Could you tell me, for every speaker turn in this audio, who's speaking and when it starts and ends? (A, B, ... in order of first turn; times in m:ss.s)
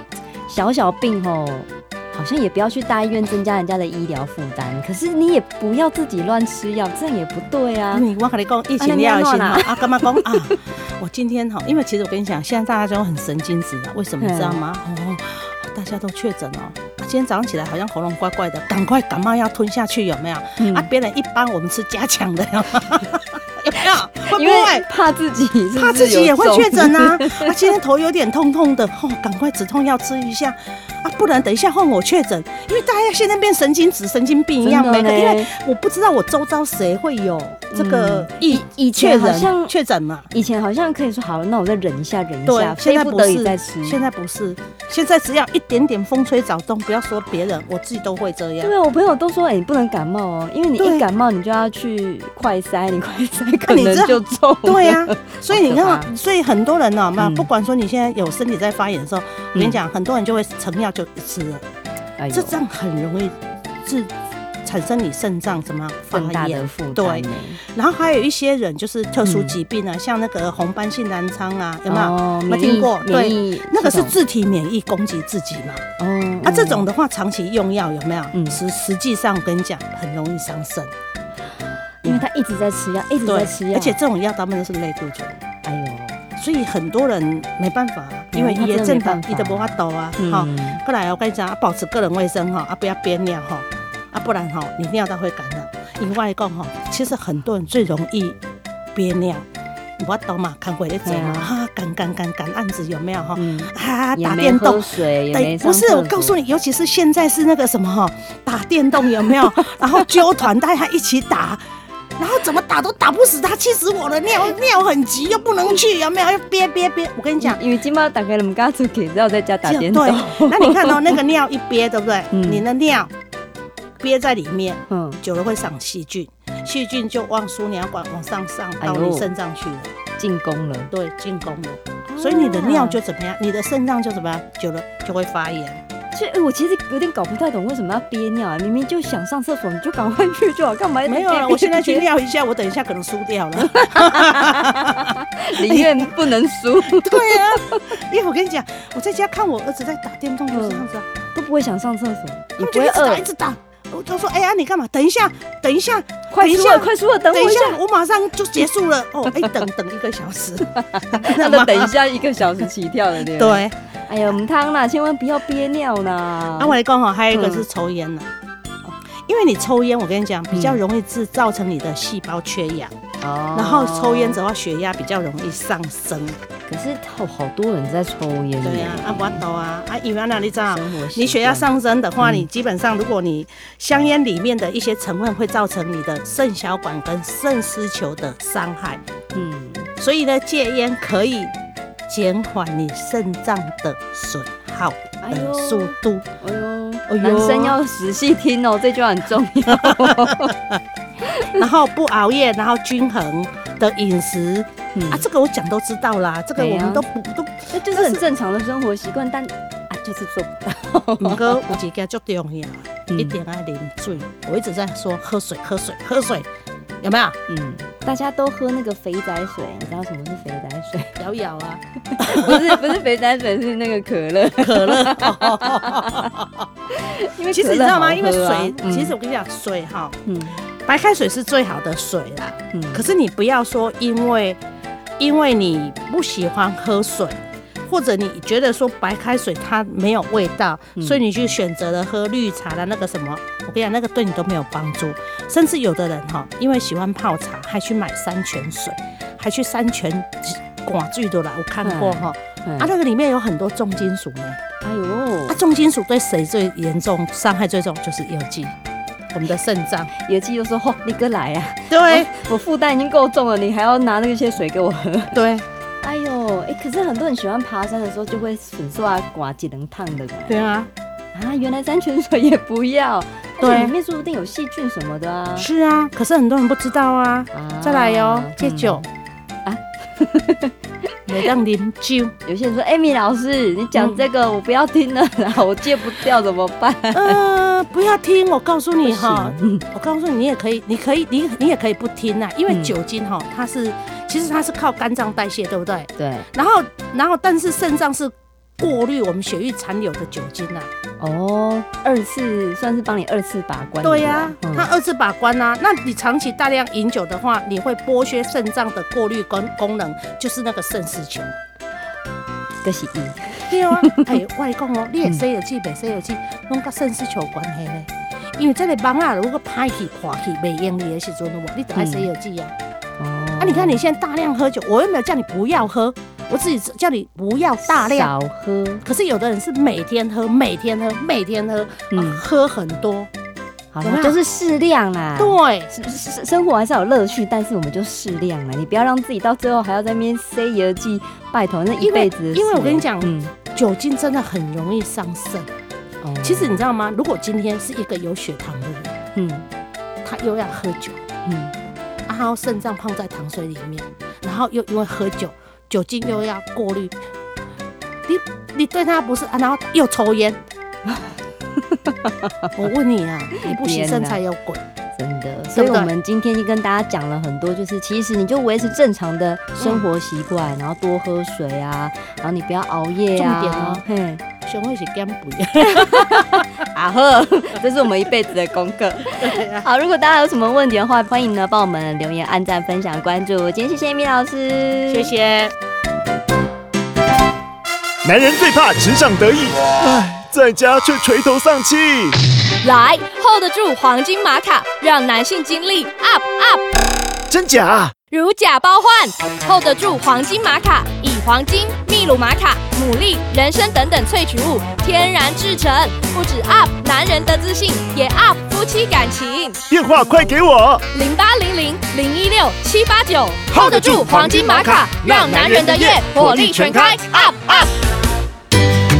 0:00.5-0:08.0 A
0:07.9-0:24.8 B
0:08.8-0:10.3 A
0:14.2-0:14.6 A
0:20.6-0:20.9 A
0:24.2-0:27.5 A
0:25.7-0:40.3 B
0:34.6-0:35.5 A
0:37.7-0:39.7 A
0:40.3-0:44.0 A
0:42.4-0:48.7 B
0:48.6-0:56.1 A
0:50.8-0:51.0 B
0:53.7-1:01.6 B
0:57.2-0:57.5 A
1:02.2-1:02.6 A
1:02.3-1:04.1 B
1:04.6-1:15.8 B
1:06.1-1:07.6 A
1:09.2-1:09.6 A
1:11.9-1:14.2 A
1:16.0-1:16.9 A
1:16.4-1:20.9 B
1:18.3-1:18.6 A
1:22.0-1:24.0 A
1:23.2-1:25.4 B
1:25.6-1:26.2 A
1:26.4-1:38.4 B
1:28.3-1:30.8 A
1:38.9-1:39.4 B
1:40.0-1:51.6 B
1:41.0-1:41.5 A
1:43.4-1:46.4 A
1:52.2-1:57.6 B
1:57.4-2:01.2 A
1:59.6-2:03.1 B
2:02.3-2:02.6 A
2:04.0-2:09.9 B
2:04.9-2:05.2 A
2:08.8-2:09.3 A
2:10.2-2:10.9 A
2:10.9-2:15.8 B
2:12.1-2:13.0 A
2:16.1-2:22.1 A
2:21.0-2:26.1 B
2:23.7-2:27.8 A
2:26.8-2:31.1 B
2:30.5-2:33.2 A
2:32.6-2:42.0 B
2:36.3-2:37.8 A
2:40.8-2:46.7 A
2:43.2-2:43.7 B
2:46.6-2:48.3 B
2:47.3-2:47.6 A
2:49.3-2:52.9 B
2:50.5-2:50.8 A
2:53.2-2:54.4 A
2:53.5-2:56.4 B
2:56.7-2:59.4 A
2:58.6-3:09.0 B
3:00.6-3:01.7 A
3:02.2-3:02.4 A
3:09.3-3:09.9 A
3:10.0-3:11.5 B
3:12.1-3:16.2 B
3:15.2-3:20.5 A
3:17.1-3:17.8 B
3:19.8-3:20.5 B
3:21.4-3:28.2 B
3:24.9-3:25.2 A
3:26.6-3:27.0 A
3:27.7-3:31.7 A
3:31.2-3:36.5 B
3:33.1-3:33.4 A
3:37.0-3:37.4 B
3:37.5-3:41.1 A
3:41.2-3:43.0 B
3:42.2-3:46.2 A
3:44.6-3:46.6 B
3:47.0-3:49.1 A
3:47.5-3:50.2 B
3:50.2-3:50.6 A
3:50.8-3:54.6 B
3:52.7-3:53.1 A
3:55.2-4:14.6 B
4:11.8-4:12.9 A
4:14.8-4:15.6 A
4:15.5-4:18.7 B
4:19.3-4:20.1 B
4:20.2-4:25.4 A
4:21.9-4:22.3 B
4:25.3-4:25.6 B
4:26.0-4:30.7 A
4:30.5-4:30.9 B
4:31.3-4:35.7 A
4:33.6-4:33.9 B
4:35.6-4:39.0 B
4:37.5-4:39.0 A
4:39.6-4:40.7 A
4:41.3-4:42.3 B
4:42.4-4:47.4 A
4:43.9-4:44.2 B
4:47.1-5:00.9 B
4:49.0-4:49.8 A
4:52.7-4:53.0 A
4:56.2-4:56.5 A
5:01.2-5:04.9 A
5:04.0-5:11.5 B
5:12.8-5:14.2 A
5:13.6-5:22.7 B
5:21.9-5:22.3 A
5:23.2-5:24.0 A
5:23.6-5:28.3 B
5:27.8-5:29.0 A
5:29.0-5:33.3 B
5:32.1-5:32.4 A
5:33.9-5:43.5 A
5:34.0-5:34.4 B
5:35.4-5:35.9 B
5:42.0-5:45.7 B
5:46.2-5:46.8 A
5:46.4-5:49.1 B
5:49.3-5:49.6 A
5:50.2-5:51.2 B
5:51.4-5:51.7 A
5:52.3-5:57.1 B
5:58.2-6:00.6 B
6:02.0-6:02.6 A
6:02.8-6:04.8 B
6:03.6-6:04.4 A
6:05.2-6:14.4 A
6:05.7-6:06.1 B
6:09.8-6:10.1 B
6:13.3-6:14.0 B
6:14.6-6:16.6 B
6:15.9-6:25.3 A
6:19.3-6:19.8 B
6:25.1-6:25.7 B
6:28.2-6:32.3 C
6:32.8-6:36.8 D
6:37.5-6:38.1 C
6:38.3-6:49.8 D
6:49.9-6:51.0 C
6:51.1-6:57.9 D
6:53.7-6:57.8 C